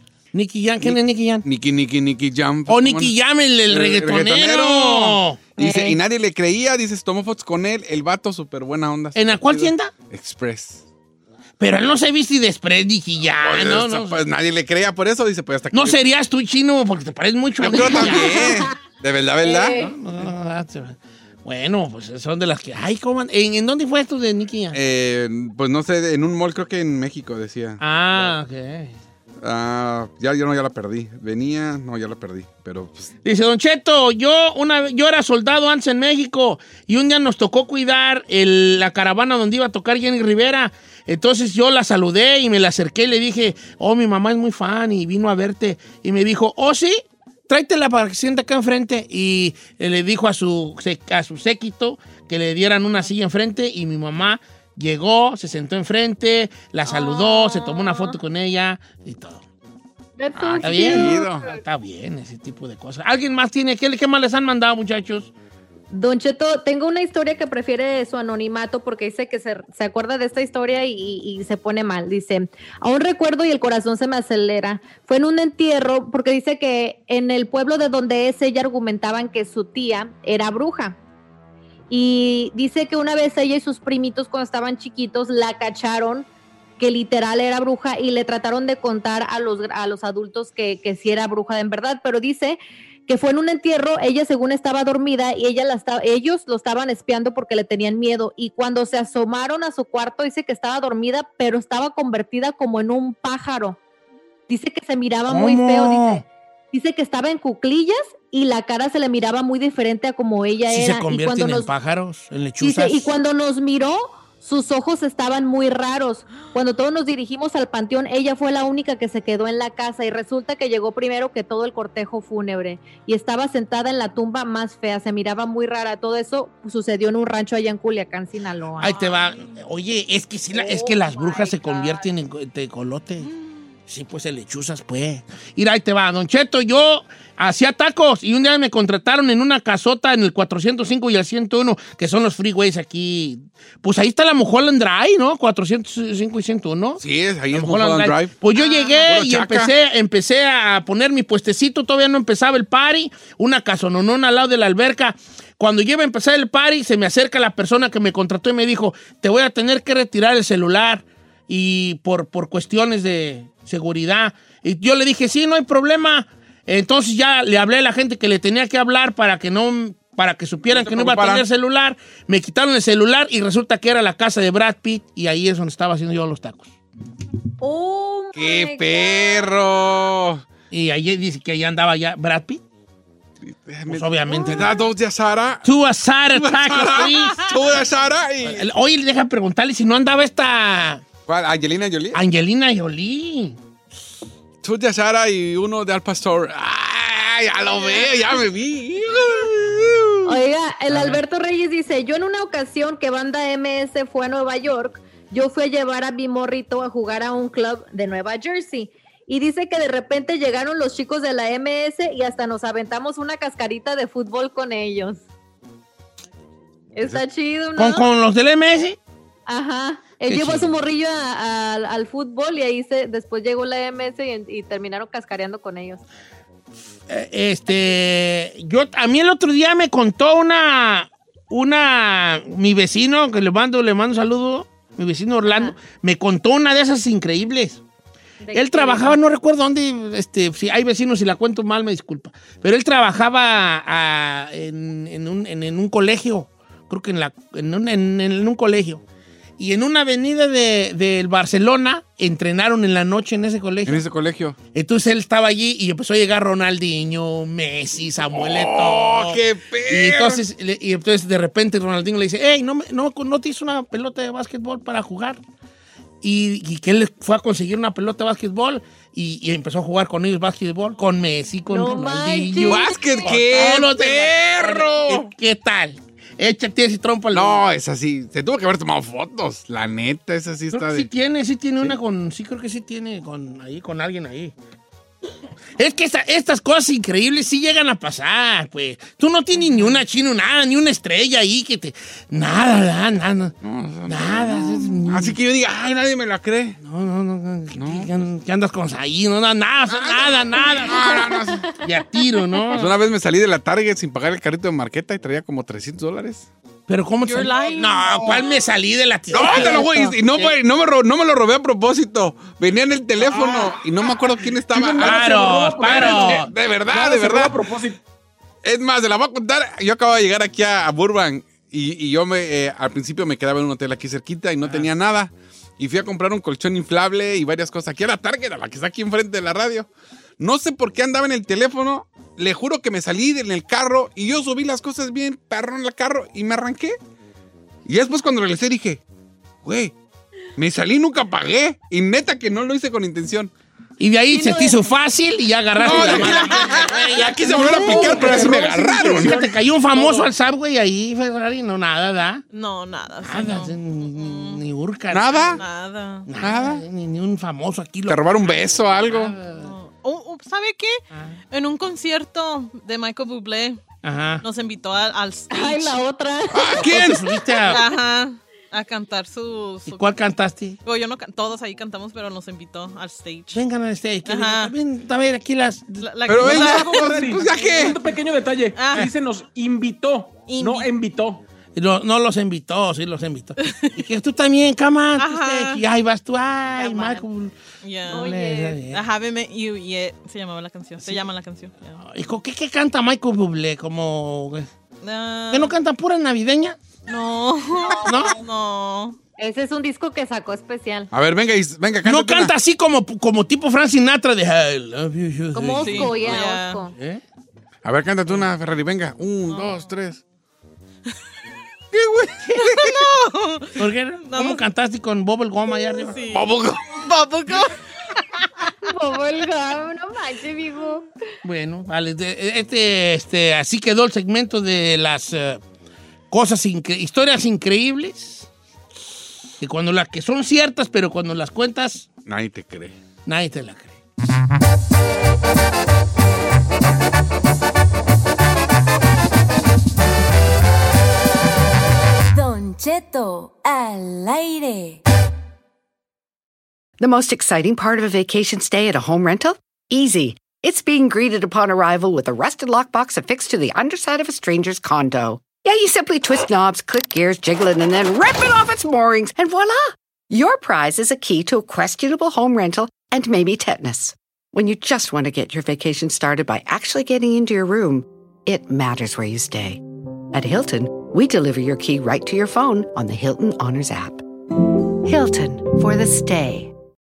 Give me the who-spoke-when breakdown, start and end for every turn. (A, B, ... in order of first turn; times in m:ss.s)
0:00.3-0:01.4 A
0:00.8-0:03.1 B
0:02.7-0:05.4 A
0:03.7-0:10.8 B
0:05.6-0:06.0 C
0:09.1-0:09.9 A
0:11.6-0:14.2 A
0:13.4-0:16.0 B
0:15.7-0:18.4 A
0:17.6-0:19.8 B
0:17.8-0:18.7 C
0:19.4-0:19.9 C
0:19.8-0:24.8 A
0:24.7-0:28.4 B
0:27.8-0:28.9 A
0:29.4-0:33.1 B
0:33.2-0:59.4 A
0:56.8-0:58.2 C
1:00.2-1:01.6 C
1:00.3-1:01.5 B
1:00.6-1:05.3 A
1:05.9-1:21.0 C
1:21.9-1:26.3 C
1:26.8-1:43.8 C
1:44.5-1:51.7 C
1:45.3-1:46.2 A
1:50.7-1:53.0 A
1:52.6-2:09.0 C
2:08.8-2:13.3 A
2:09.0-2:09.4 D
2:10.5-2:12.0 C
2:13.9-2:27.0 A
2:27.0-2:28.3 B
2:27.5-2:56.7 A
2:28.5-2:29.1 C
2:29.0-2:29.7 B
2:50.7-2:51.4 E
2:57.6-2:59.8 C
2:58.3-3:00.4 B
3:00.7-3:02.6 A
3:03.4-3:05.6 B
3:03.9-3:04.7 A
3:04.3-3:04.8 C
3:05.6-3:07.5 A
3:06.3-3:08.6 B
3:08.4-3:11.0 A
3:11.3-3:12.2 B
3:12.1-3:13.6 A
3:14.6-3:20.4 B
3:17.8-3:18.1 C
3:20.2-3:35.2 C
3:20.9-3:21.2 A
3:36.9-3:38.0 C
3:37.8-3:39.0 A
3:39.5-3:46.0 C
3:40.2-3:40.7 A
3:47.1-3:57.8 A
3:55.5-3:55.7 C
3:58.4-3:59.2 C
3:58.5-4:09.0 A
4:09.6-4:14.0 A
4:13.8-4:14.6 B
4:14.7-4:25.4 A
4:18.3-4:20.4 B
4:26.2-4:37.6 A
4:31.7-4:33.9 C
4:32.6-4:35.2 B
4:37.3-4:41.1 B
4:40.7-4:44.5 A
4:45.8-4:53.5 A
4:53.6-4:56.8 B
4:54.1-4:55.4 A
4:56.8-5:01.0 A
4:57.7-4:58.1 B
4:59.9-5:01.6 B
5:00.6-5:02.9 C
5:01.7-5:02.9 A
5:02.8-5:06.5 B
5:06.9-5:10.5 A
5:07.3-5:08.5 D
5:08.2-5:08.5 C
5:09.3-5:17.6 B
5:09.4-5:10.2 C
5:14.7-5:18.0 E
5:15.0-5:16.5 A
5:18.6-5:29.9 B
5:24.6-5:24.9 A
5:30.4-5:37.0 B
5:37.8-5:39.0 B
5:39.6-5:39.9 B
5:40.6-5:43.5 B
5:44.0-5:52.4 A
5:44.3-5:44.8 C
5:45.8-5:49.4 B
5:46.0-5:46.7 C
5:47.2-5:50.3 E
5:52.5-5:54.6 D
5:53.2-5:55.5 A
5:55.1-5:55.6 B
5:55.5-5:56.3 D
5:56.3-5:59.7 A
5:56.4-5:56.8 B
5:58.1-5:59.4 B
5:59.6-6:03.8 D
6:01.1-6:01.4 A
6:04.0-6:04.4 A
6:04.4-6:06.0 D
6:05.5-6:07.1 C
6:06.5-6:07.2 B
6:06.7-6:07.8 A
6:07.7-6:10.2 D
6:09.8-6:10.8 A
6:10.8-6:13.6 D
6:13.5-6:16.1 A
6:14.2-6:14.7 D
6:16.0-6:18.0 D
6:16.3-6:18.0 B
6:16.4-6:21.4 E
6:18.7-6:19.1 D
6:20.5-6:20.9 D
6:21.8-6:27.5 A
6:23.6-6:24.0 D
6:25.2-6:25.8 D
6:26.8-6:27.2 C
6:27.8-6:28.3 D
6:28.0-6:29.0 A
6:28.1-6:28.8 C
6:28.9-6:32.0 D
6:31.0-6:31.3 A
6:32.0-6:34.7 A
6:35.0-6:35.7 D
6:35.5-6:36.8 A
6:37.1-6:39.2 D
6:37.8-6:38.3 C
6:38.0-6:38.3 A
6:39.4-6:41.1 C
6:41.1-6:42.5 B
6:42.0-6:47.2 A
6:45.5-6:46.9 C
6:45.8-6:46.8 D
6:47.8-6:50.2 B
6:51.9-6:53.0 B
6:52.6-6:54.6 D
6:53.8-6:56.2 A
6:56.1-6:58.2 D
6:56.3-6:56.8 B
6:58.8-7:01.1 C
7:01.4-7:05.6 A
7:06.3-7:08.5 A
7:09.6-7:12.1 A
7:12.2-7:13.0 B
7:13.2-7:13.9 A
7:22.3-7:25.0 F
7:27.0-7:54.2 G
7:55.0-7:56.7 G